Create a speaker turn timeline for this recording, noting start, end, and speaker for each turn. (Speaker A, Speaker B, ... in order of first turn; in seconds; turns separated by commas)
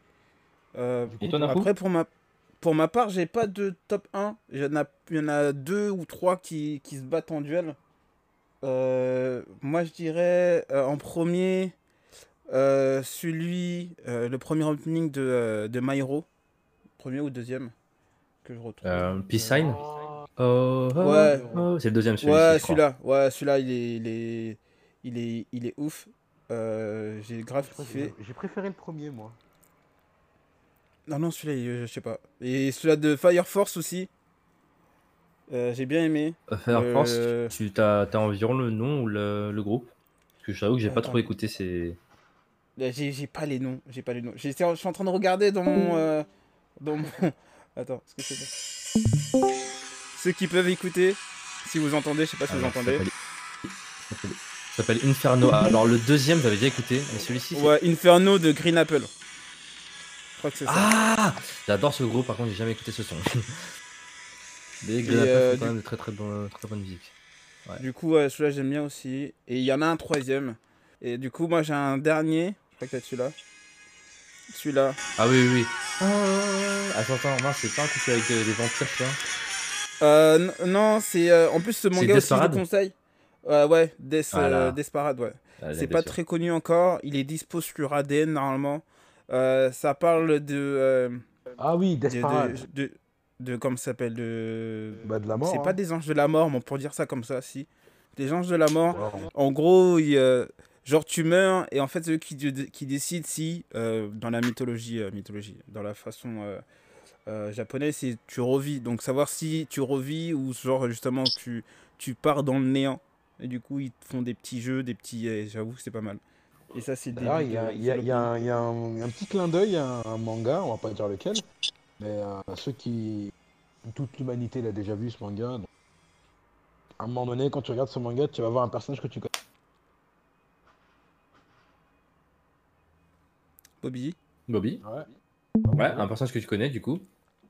Speaker A: 0.7-2.1, Speaker B: 1.2-1.7, Speaker A: 2.6-7.8, Speaker A: 8.6-11.7, Speaker A: 12.5-16.2, Speaker A: 17.0-17.7, Speaker A: 18.4-19.1, Speaker B: 18.8-19.8, Speaker C: 19.3-20.3, Speaker B: 20.4-22.8, Speaker A: 21.0-21.6, Speaker C: 21.1-21.7, Speaker A: 22.2-28.1, Speaker C: 27.6-29.4, Speaker A: 31.1-34.1, Speaker A: 35.5-37.5, Speaker B: 36.5-39.9, Speaker B: 40.4-42.0, Speaker C: 40.9-41.2, Speaker A: 42.8-46.2, Speaker A: 46.8-48.5, Speaker A: 50.1-53.0, Speaker B: 52.5-53.1, Speaker B: 53.7-57.7, Speaker A: 57.5-59.1, Speaker A: 60.4-60.9, Speaker B: 60.6-63.7, Speaker B: 64.8-67.1, Speaker A: 65.0-65.7, Speaker A: 67.8-73.3, Speaker A: 74.5-75.0, Speaker B: 75.2-79.2, Speaker A: 80.0-91.2, Speaker B: 81.9-82.6, Speaker B: 84.3-84.8, Speaker B: 85.6-86.2, Speaker C: 91.6-92.6, Speaker A: 92.1-106.6, Speaker C: 95.0-95.8, Speaker C: 98.9-99.3, Speaker A: 107.3-116.2, Speaker A: 116.7-118.3, Speaker C: 117.1-121.5, Speaker C: 122.0-123.3, Speaker C: 123.8-125.7, Speaker C: 127.0-129.3, Speaker A: 133.8-134.1, Speaker B: 134.5-134.8, Speaker C: 134.8-135.1, Speaker C: 135.6-136.1, Speaker B: 135.8-137.1